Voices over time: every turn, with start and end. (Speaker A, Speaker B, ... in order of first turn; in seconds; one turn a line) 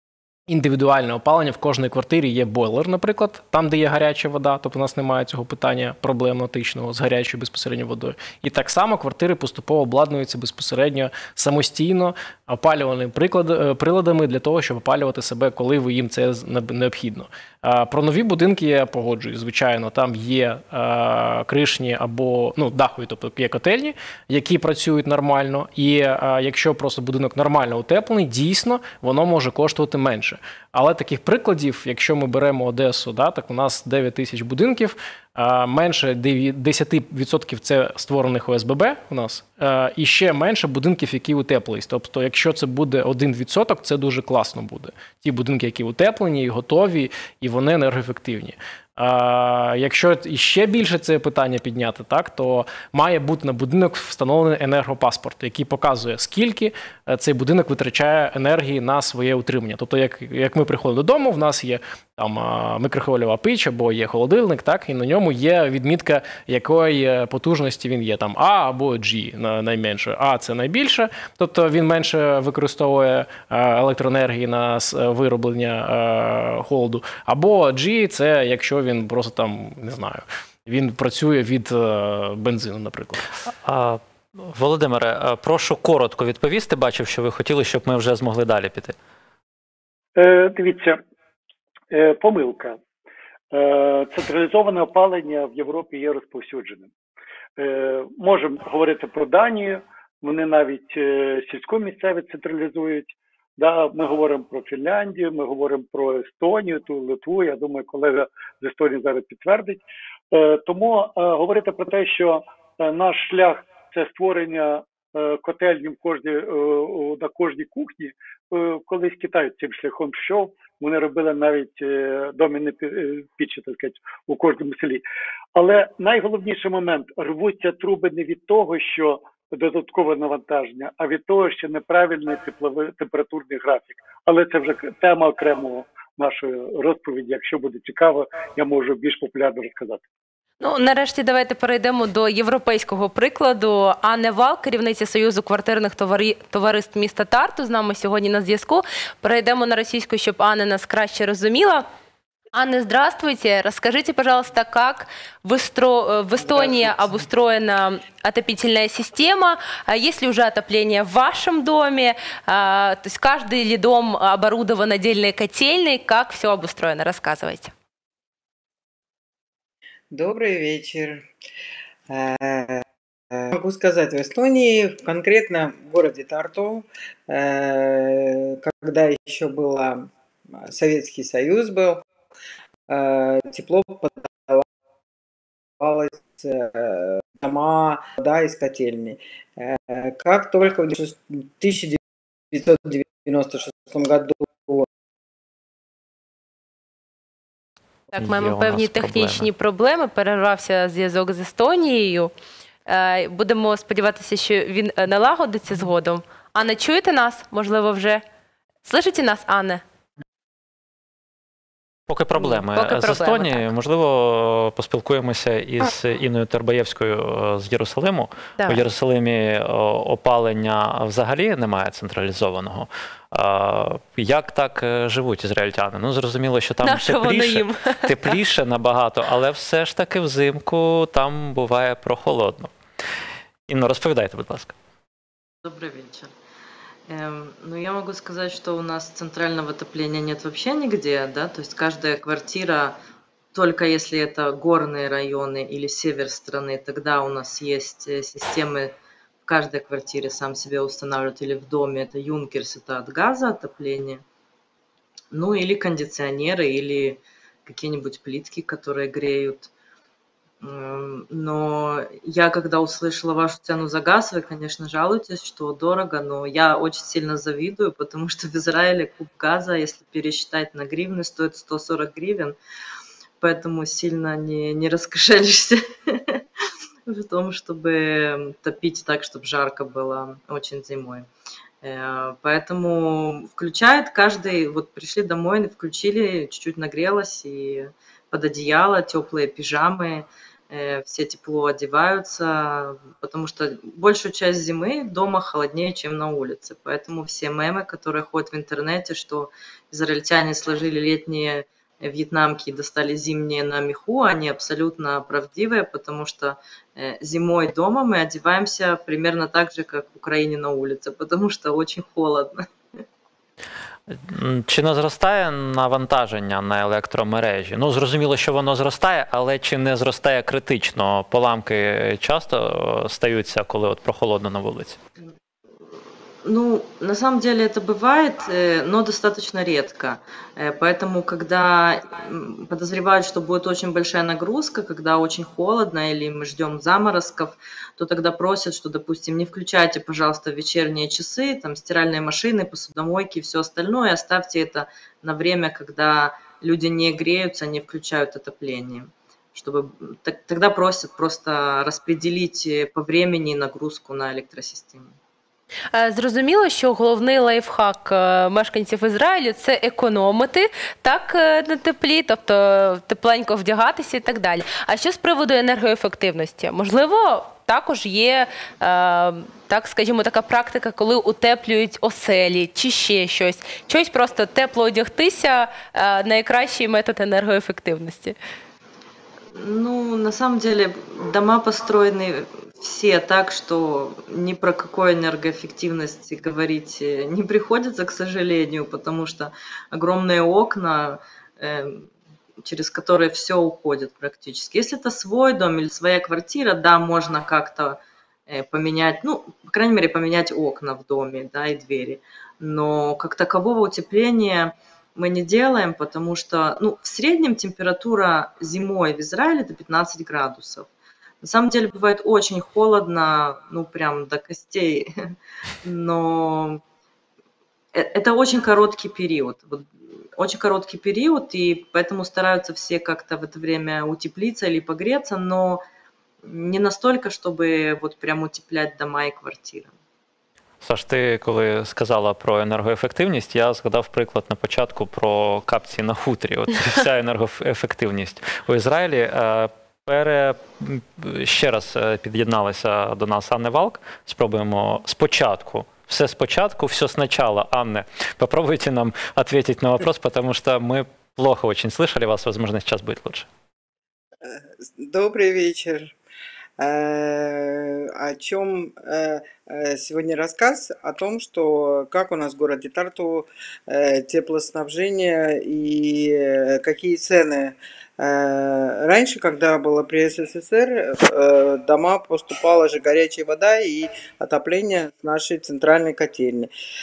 Speaker A: 0.5-83.2
Speaker B: 83.6-88.9
Speaker C: 90.2-91.0
Speaker C: 91.9-92.8
Speaker C: 93.5-96.9
Speaker C: 97.6-125.0
Speaker C: 125.5-140.0
Speaker D: 140.6-151.8
Speaker D: 152.5-167.7
Speaker E: 170.1-171.2
Speaker E: 172.1-182.1
Speaker E: 182.9-184.6
Speaker E: 185.8-192.0
Speaker E: 192.5-194.9
Speaker D: 198.1-202.3
Speaker B: 198.1-199.5
Speaker D: 202.8-208.2
Speaker D: 208.8-209.8
Speaker B: 212.1-232.8
Speaker D: 212.3-213.7
Speaker D: 218.6-218.8
Speaker D: 226.8-228.4
Speaker B: 233.7-234.7
Speaker F: 235.6-236.3
Speaker F: 237.1-243.0
Speaker F: 243.5-254.2
Speaker F: 255.3-259.7
Speaker F: 260.6-272.6
Speaker F: 273.4-276.4
Speaker F: 277.1-281.3
Speaker F: 281.8-312.6
Speaker B: 314.2-325.0
Speaker F: 326.4-355.1
Speaker D: 355.9-378.4
Speaker F: 379.5-410.9
Speaker F: 411.4-416.8
Speaker F: 417.9-425.8
Speaker F: 426.4-429.9
Speaker B: 430.8-453.5
Speaker E: 454.4-456.1
Speaker E: 456.8-476.7